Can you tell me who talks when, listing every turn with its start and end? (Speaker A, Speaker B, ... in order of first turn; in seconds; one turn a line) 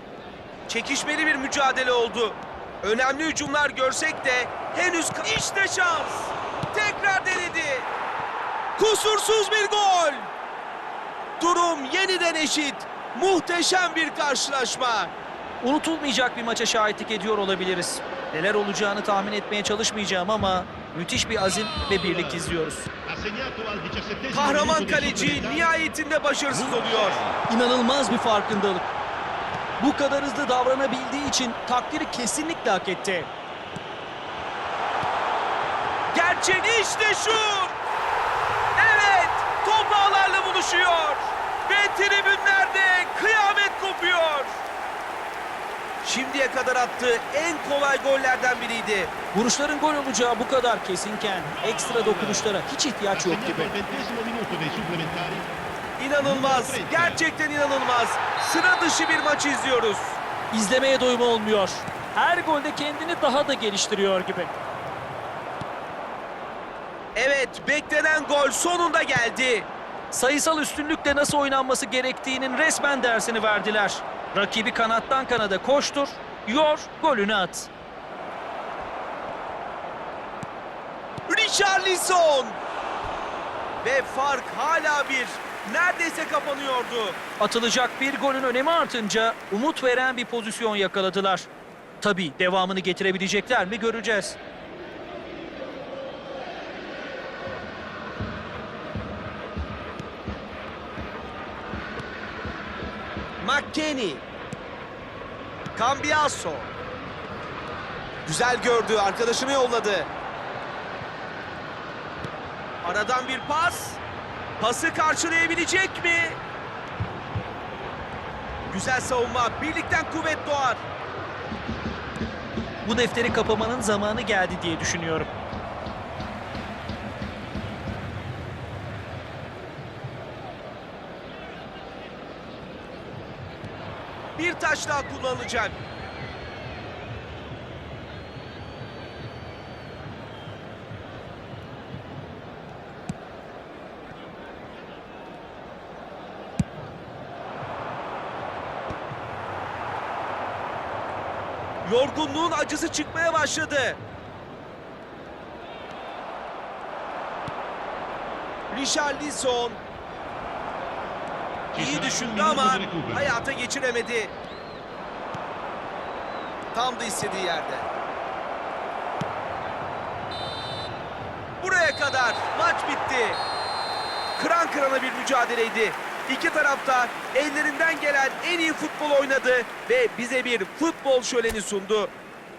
Speaker A: 0.7-7.9
Speaker A: 8.8-10.3
Speaker A: 11.4-15.1
Speaker B: 15.6-22.9
Speaker C: 21.4-22.5
Speaker C: 23.1-25.8
Speaker A: 24.3-27.2
Speaker C: 26.5-27.4
Speaker B: 27.5-28.9
Speaker B: 29.8-33.3
Speaker A: 36.1-37.7
Speaker A: 38.8-44.6
Speaker A: 46.0-49.1
Speaker B: 49.3-53.7
Speaker C: 51.6-52.5
Speaker C: 53.1-55.5
Speaker A: 56.0-60.2
Speaker C: 56.2-57.2
Speaker B: 60.5-64.5
Speaker A: 67.1-69.7
Speaker B: 70.1-77.7
Speaker A: 81.3-82.6
Speaker A: 83.8-87.2
Speaker B: 87.4-91.5
Speaker B: 92.0-94.4
Speaker A: 103.4-104.2
Speaker A: 105.8-106.7
Speaker A: 108.2-110.1
Speaker A: 112.8-114.0
Speaker A: 114.6-116.4
Speaker A: 118.7-120.8
Speaker B: 122.8-125.3
Speaker A: 134.4-135.8
Speaker A: 151.8-154.0
Speaker A: 158.7-159.8
Speaker C: 161.7-163.3
Speaker A: 161.7-164.3
Speaker A: 166.7-167.9
Speaker A: 171.6-173.4
Speaker A: 174.3-182.1